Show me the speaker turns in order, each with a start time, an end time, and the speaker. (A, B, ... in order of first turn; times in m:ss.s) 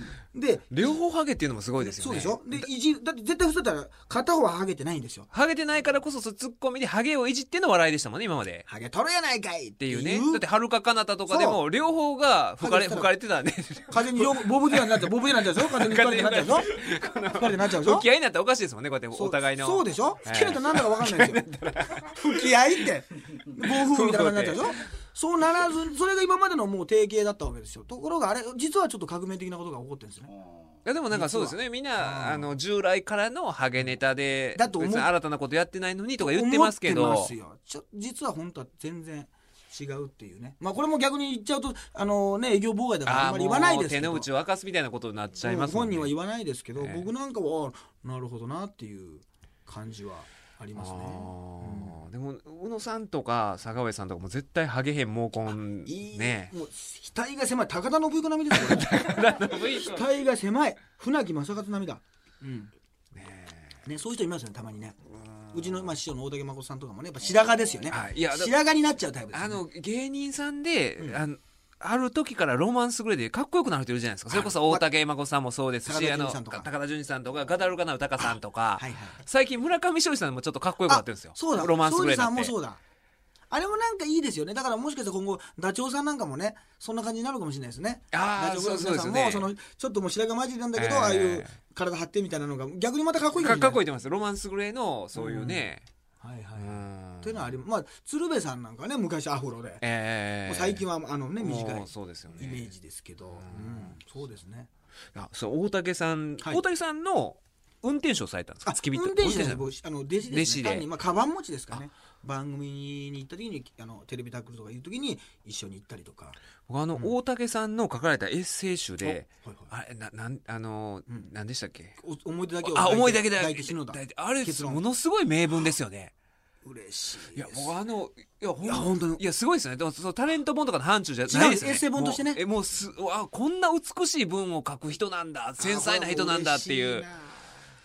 0:00.3-0:01.0 A
0:00.7-0:02.6 B
0:01.8-0:05.3 A
0:05.3-0:08.6 B
0:08.7-0:10.4 A
0:09.8-0:22.2 B
0:11.3-0:11.6 A
0:12.6-0:13.1 A
0:13.9-0:16.7 A
0:17.3-0:18.1 A
0:19.1-0:30.3 A
0:23.6-0:24.7 B
0:30.8-0:37.3 B
0:31.1-0:32.5 A
0:34.5-0:35.1 A
0:36.2-0:44.3 A
0:43.0-0:46.1 B
0:45.4-0:52.0 A
0:46.8-0:47.1 B
0:50.8-0:56.5 B
0:55.8-1:02.7 A
0:58.5-1:00.1 B
1:03.1-1:03.8 B
1:03.8-1:05.0 A
1:05.1-1:05.9 B
1:05.5-1:09.6 A
1:07.9-1:08.5 B
1:09.3-1:22.5 B
1:14.3-1:14.8 A
1:15.8-1:16.7 A
1:18.2-1:19.2 A
1:20.9-1:22.8 A
1:23.5-1:33.8 A
1:28.1-1:29.5 B
1:30.8-1:31.5 B
1:33.4-1:35.8 B
1:35.2-1:35.7 A
1:36.2-1:39.8 A
1:36.6-1:37.5 B
1:39.8-1:40.8 B
1:40.4-1:44.7 A
1:41.4-1:42.7 B
1:43.4-1:43.9 B
1:45.1-1:49.7 B
1:48.6-1:56.4 A
1:50.3-1:50.9 B
1:56.7-2:02.0 B
1:59.0-1:59.7 A
2:02.0-2:04.8 A
2:02.6-2:06.1 B
2:06.6-2:07.7 A
2:07.3-2:17.0 B
2:08.6-2:09.2 A
2:11.3-2:12.4 A
2:15.6-2:17.5 A